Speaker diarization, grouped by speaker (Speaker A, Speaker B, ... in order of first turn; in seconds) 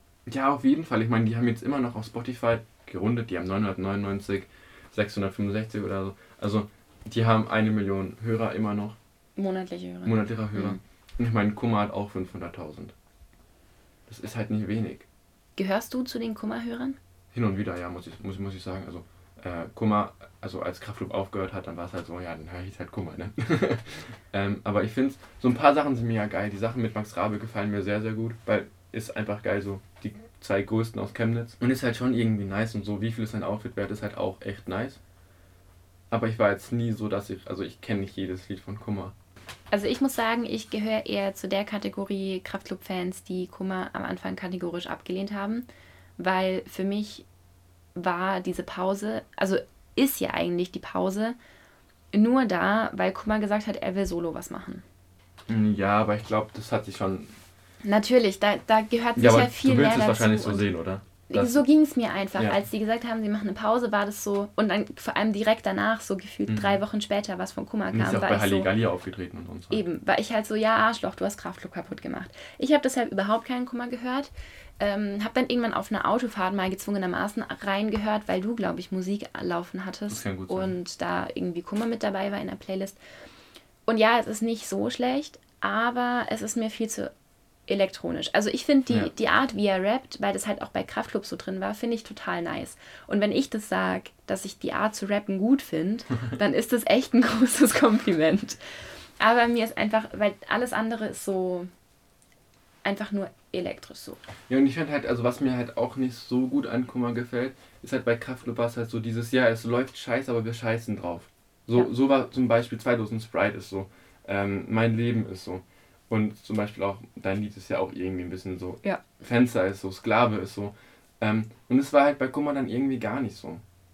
Speaker A: 0.3-9.0, 10.1-12.9, 14.1-15.1, 17.3-35.0, 36.1-39.1, 55.5-57.3, 59.2-61.6, 66.5-66.8, 67.9-69.8, 80.1-80.8, 104.5-123.6
Speaker B: 9.4-10.8, 15.6-17.0, 39.7-45.7, 46.2-47.3, 48.0-51.4, 52.1-54.8, 57.8-60.7, 61.3-68.7, 69.7-83.0, 83.9-87.1, 87.7-101.7, 102.8-104.2